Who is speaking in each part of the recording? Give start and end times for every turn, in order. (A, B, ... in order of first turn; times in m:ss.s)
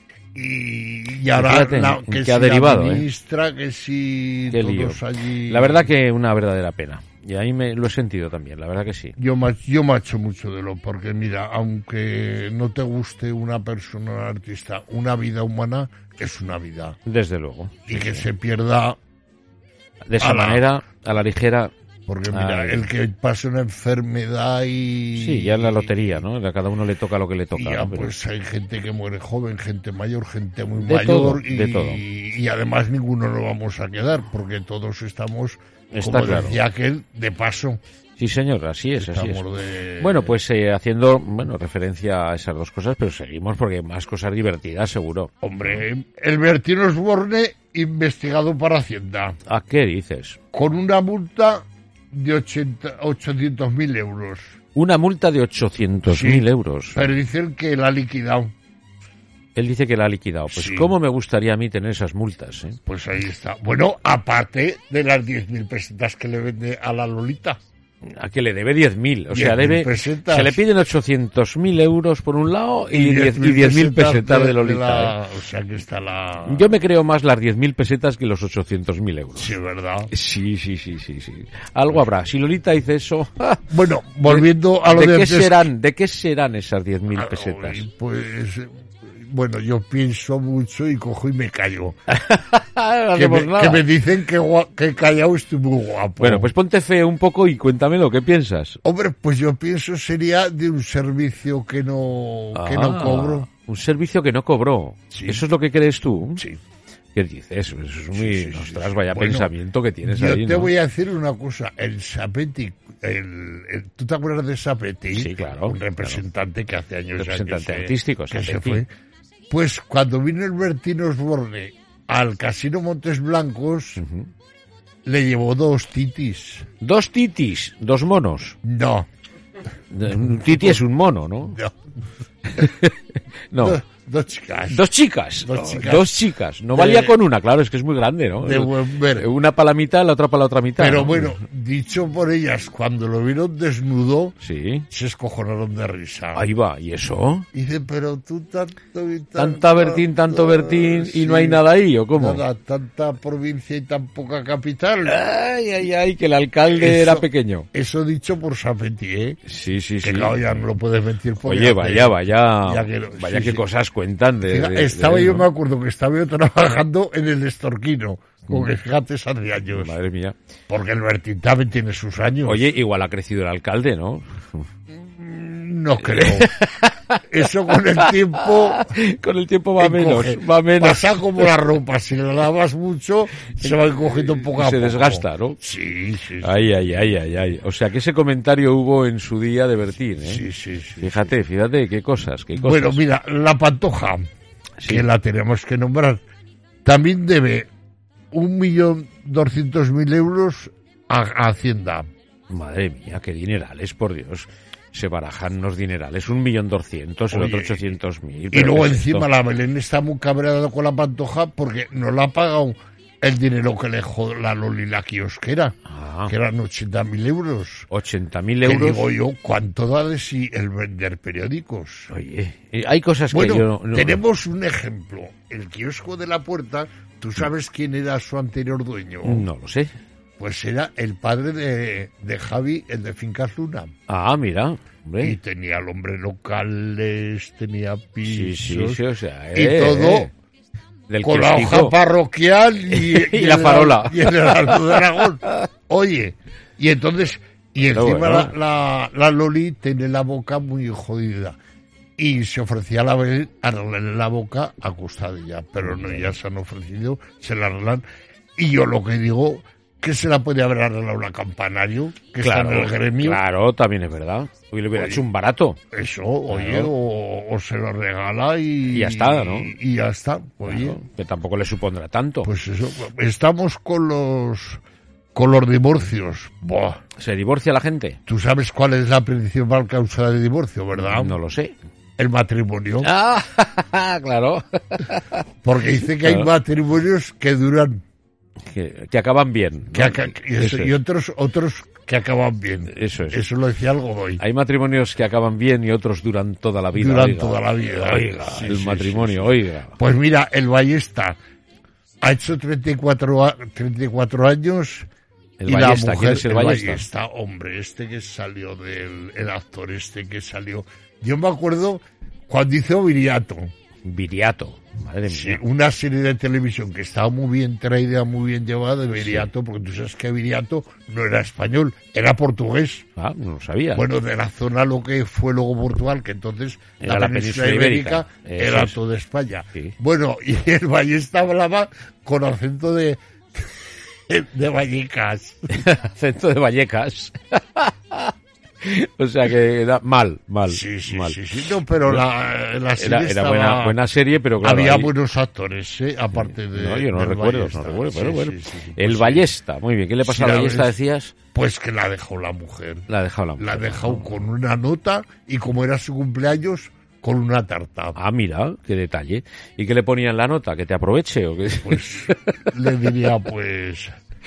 0:00.3-0:05.9 A
0:01.3-0:03.1 B
0:04.5-0:09.2 B
0:09.2-0:17.0 A
0:17.0-0:18.3 B
0:17.9-0:19.0 A
0:20.1-0:21.7 B
0:20.2-0:20.7 A
0:22.1-0:26.2 A
0:22.3-0:22.9 B
0:25.2-0:28.1 B
0:27.5-0:37.8 A
0:30.8-0:32.0 B
0:35.9-0:36.6 B
0:38.2-0:39.4 B
0:39.0-0:40.3 A
0:40.0-0:45.8 B
0:45.4-0:49.4 A
0:49.4-0:50.4 B
0:50.5-0:54.6 A
0:54.7-0:57.1 B
0:56.1-0:58.5 A
0:59.6-1:02.8 B
1:00.5-1:01.0 A
1:02.9-1:07.6 A
1:08.0-1:15.2 B
1:09.3-1:10.6 A
1:12.9-1:16.8 A
1:16.4-1:19.5 B
1:19.4-1:20.1 A
1:20.1-1:27.8 B
1:23.7-1:25.7 A
1:27.1-1:32.0 A
1:32.1-1:33.9 B
1:33.2-1:36.5 A
1:36.2-1:38.8 B
1:38.8-1:43.5 A
1:42.5-1:46.4 B
1:45.1-1:45.4 A
1:47.1-1:50.7 B
1:48.1-1:58.9 A
1:55.1-1:56.2 B
1:57.2-1:58.8 B
1:59.5-2:04.0 A
2:04.0-2:04.3 B
2:05.0-2:06.7 A
2:06.8-2:08.6 B
2:08.6-2:09.1 A
2:09.9-2:11.6 B
2:10.4-2:10.8 A
2:12.5-2:13.0 B
2:13.5-2:13.8 B
2:13.6-2:14.8 A
2:14.7-2:21.4 B
2:15.4-2:17.2 A
2:18.4-2:19.3 A
2:20.8-2:24.4 A
2:24.4-2:24.9 B
2:24.9-2:26.5 A
2:26.3-2:27.5 B
2:27.5-2:35.2 A
2:29.4-2:32.4 B
2:35.0-2:37.7 B
2:36.7-2:39.4 A
2:39.4-2:40.6 B
2:40.0-2:43.6 A
2:41.4-2:45.5 B
2:44.4-2:50.0 A
2:48.5-2:48.8 B
2:49.7-2:50.4 B
2:50.7-2:52.7 A
2:52.4-2:54.7 B
2:54.9-2:56.5 A
2:56.0-3:01.5 B
2:57.3-2:58.9 A
2:59.8-3:06.8 A
3:03.5-3:05.6 B
3:06.4-3:10.4 B
3:10.2-3:11.3 A
3:11.0-3:13.0 B
3:12.6-3:14.2 A
3:14.8-3:15.1 B
3:14.8-3:16.2 A
3:16.8-3:17.7 A
3:18.3-3:22.1 A
3:22.5-3:29.3 B
3:27.3-3:27.9 A
3:28.5-3:35.8 A
3:35.9-3:36.3 B
3:36.3-3:37.9 A
3:37.9-3:39.1 B
3:38.6-3:42.1 A
3:42.1-3:44.2 B
3:43.3-3:49.5 A
3:49.2-3:49.9 B
3:50.4-3:53.9 A
3:54.1-3:55.4 B
3:55.2-4:00.3 A
3:58.2-4:00.3 B
4:01.1-4:02.0 B
4:01.2-4:11.6 A
4:02.9-4:05.4 B
4:07.9-4:08.6 B
4:12.2-4:18.0 A
4:15.8-4:16.3 B
4:18.6-4:23.4 A
4:22.4-4:25.8 B
4:24.9-4:25.2 A
4:25.9-4:31.0 A
4:26.5-4:26.9 B
4:28.9-4:29.8 B
4:30.6-4:32.5 B
4:32.4-4:34.8 A
4:35.4-4:37.0 A
4:37.2-4:38.2 B
4:38.3-4:41.4 A
4:41.0-4:41.8 B
4:42.2-4:43.1 A
4:43.0-4:45.4 B
4:45.6-4:48.0 A
4:46.2-4:46.5 B
4:48.7-4:51.0 B
4:49.9-4:54.4 A
4:52.9-4:53.4 B
4:54.4-5:00.0 B
4:56.9-5:01.4 A
5:02.2-5:05.1 A
5:05.6-5:07.1 B
5:05.6-5:13.7 A
5:14.0-5:15.6 B
5:15.3-5:23.1 A
5:19.2-5:19.5 B
5:23.2-5:24.1 B
5:23.9-5:35.8 A
5:27.0-5:29.0 B
5:35.7-5:42.2 B
5:40.7-5:44.0 A
5:43.0-5:45.1 B
5:44.6-5:49.5 A
5:46.3-5:51.3 B
5:50.2-5:51.0 A
5:51.5-5:58.2 A
5:53.1-5:54.4 B
5:58.2-6:03.4 B
6:01.8-6:04.1 A